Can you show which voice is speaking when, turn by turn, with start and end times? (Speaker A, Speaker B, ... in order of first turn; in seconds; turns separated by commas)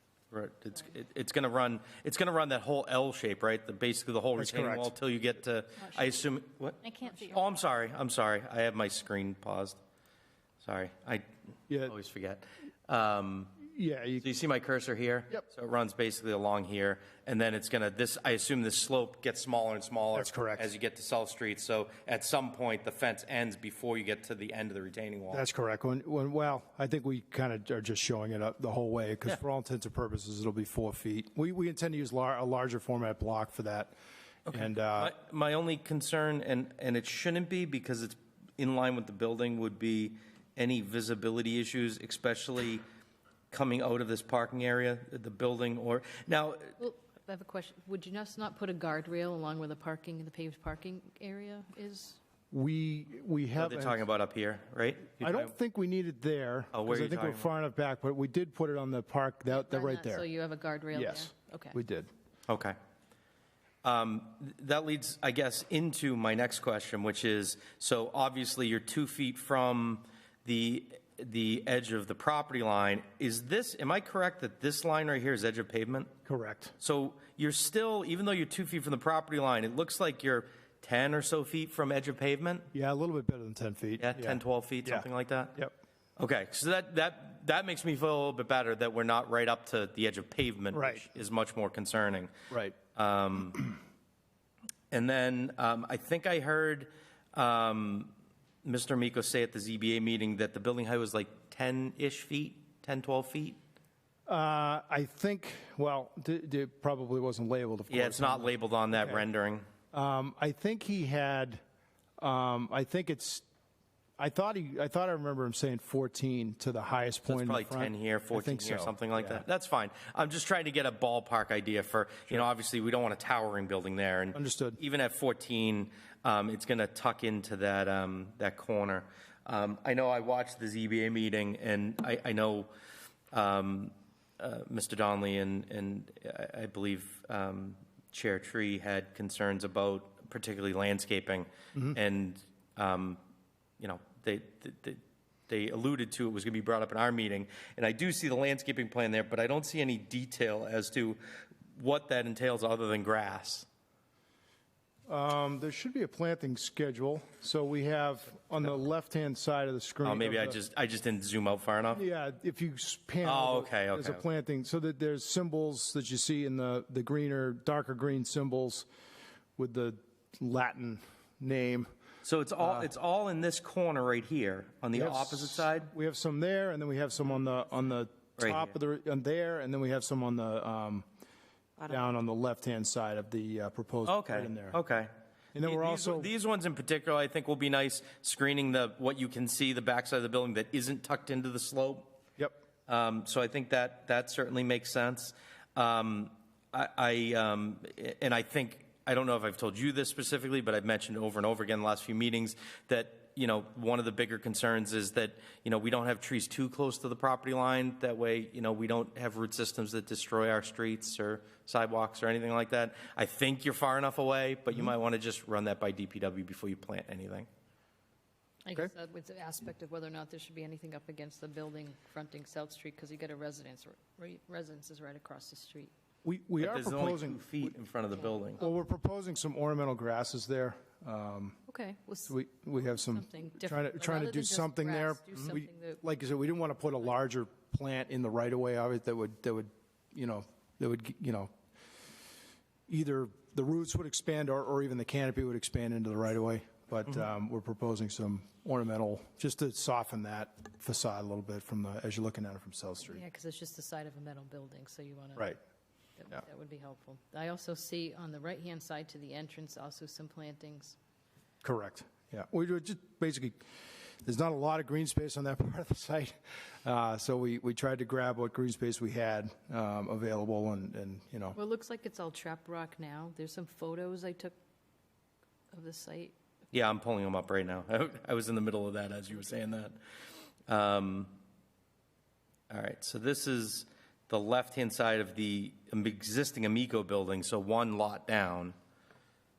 Speaker A: 0.3-9.8, Speaker B: 4.4-4.9, Speaker C: 5.8-6.3, Speaker C: 6.8-7.5, Speaker A: 10.6-11.3, Speaker B: 11.7-11.9, Speaker A: 11.8-13.6, Speaker B: 13.6-14.3, Speaker A: 14.2-25.4, Speaker B: 20.1-20.7, Speaker B: 25.3-33.9, Speaker A: 34.5-42.8, Speaker B: 34.5-35.1, Speaker A: 43.5-46.8, Speaker C: 46.8-52.2, Speaker B: 52.5-54.1, Speaker A: 53.6-55.5, Speaker B: 55.2-60.3, Speaker A: 56.7-57.5, Speaker C: 59.5-61.8, Speaker B: 60.9-62.1, Speaker A: 62.5-62.8, Speaker A: 63.8-76.1, Speaker B: 76.3-76.7, Speaker A: 76.8-82.7, Speaker B: 82.7-85.8, Speaker A: 84.0-85.6, Speaker A: 86.2-92.3, Speaker B: 90.7-91.1, Speaker A: 93.0-93.7, Speaker A: 94.9-98.1, Speaker A: 98.6-103.6, Speaker B: 104.3-109.3, Speaker A: 107.9-109.7, Speaker B: 109.9-111.6, Speaker B: 112.2-113.5, Speaker B: 114.2-119.4, Speaker A: 117.3-132.7, Speaker B: 124.3-124.8, Speaker A: 133.3-143.2, Speaker A: 143.8-151.2, Speaker A: 151.8-153.7, Speaker B: 155.1-160.6, Speaker A: 160.0-162.0, Speaker B: 161.9-168.9, Speaker A: 163.2-164.2, Speaker B: 169.6-171.9, Speaker A: 172.2-175.9, Speaker B: 172.6-172.9, Speaker B: 174.9-181.1, Speaker A: 178.4-178.7, Speaker B: 181.8-184.8, Speaker A: 184.1-192.2, Speaker B: 185.6-186.3, Speaker A: 192.9-217.5, Speaker C: 218.7-225.9, Speaker B: 226.2-227.7, Speaker A: 226.6-228.6, Speaker B: 228.6-231.6, Speaker C: 231.7-236.0, Speaker B: 232.3-241.5, Speaker B: 242.9-253.2, Speaker C: 253.0-255.6, Speaker C: 256.2-261.0, Speaker B: 261.6-263.6, Speaker B: 264.2-271.6, Speaker C: 271.5-274.6, Speaker C: 275.7-276.4, Speaker A: 276.7-280.0, Speaker A: 280.7-281.4, Speaker A: 282.7-288.8